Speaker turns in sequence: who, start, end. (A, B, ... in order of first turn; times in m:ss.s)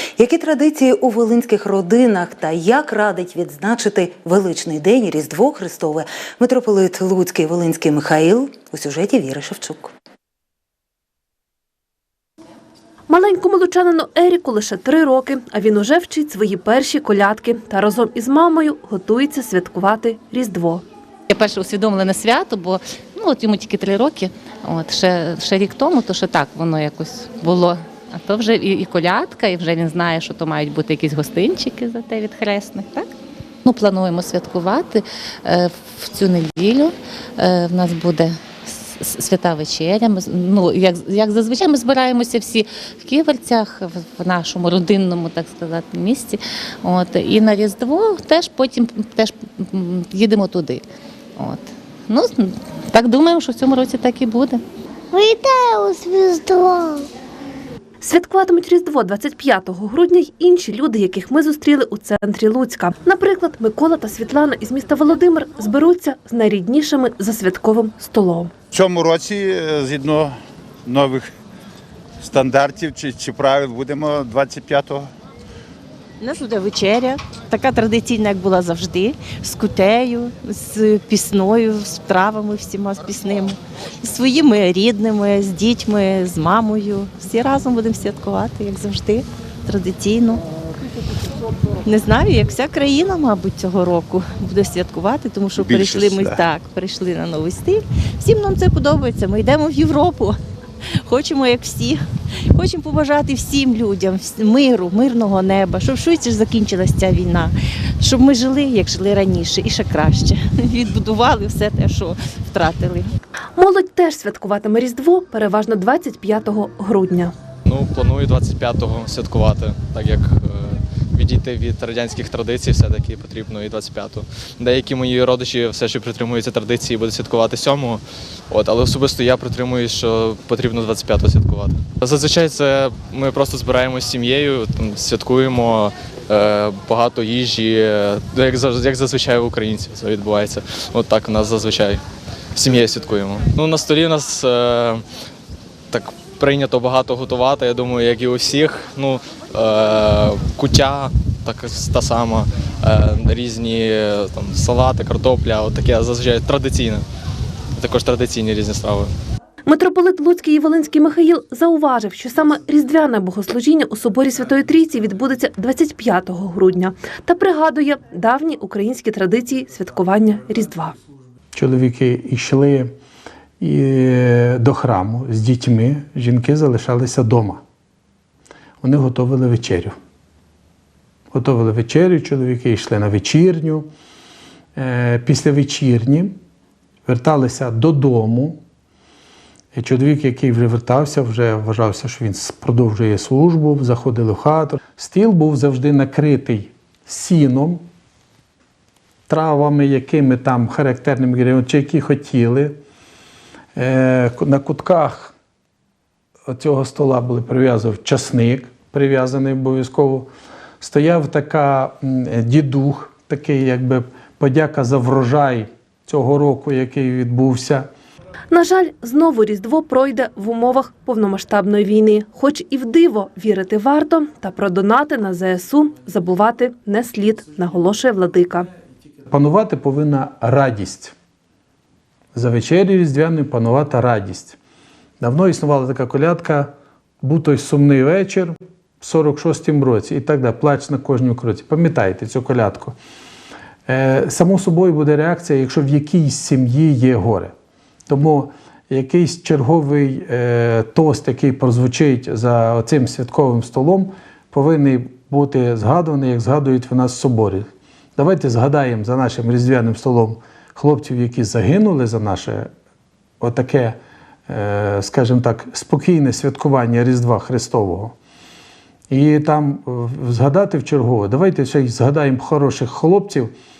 0:00.2-0:09.9 A
0:13.1-0:20.8 B
0:21.3-0:33.1 C
0:33.6-0:50.8 C
0:51.4-0:57.0 C
0:58.0-1:08.5 B
1:08.7-1:11.3 D
1:12.2-1:15.1 D
1:16.2-1:30.4 E
1:31.8-1:40.4 E
1:35.6-1:36.4 D
1:41.0-1:42.0 E
1:42.5-1:53.1 E
1:53.6-1:57.3 B
1:57.6-2:22.0 F
2:22.5-2:25.0 F
2:25.9-2:37.0 F
2:37.7-2:39.1 F
2:39.6-2:51.0 B
2:51.5-2:52.9 G
2:53.6-2:57.6 G
2:58.8-2:59.9 G
3:01.3-3:03.9 G
3:04.8-3:06.3 G
3:07.0-3:08.6 G
3:09.7-3:17.8 G
3:19.3-3:22.7 G
3:23.8-3:25.3 G
3:26.5-3:30.3 G
3:30.8-3:37.8 G
3:38.5-3:48.7 B
3:49.3-3:51.1 G
3:52.3-3:54.6 G
3:55.2-4:02.9 G
4:03.9-4:07.5 G
4:08.1-4:22.7 G
4:23.4-4:24.0 G
4:24.5-4:28.1 G
4:29.1-4:33.5 G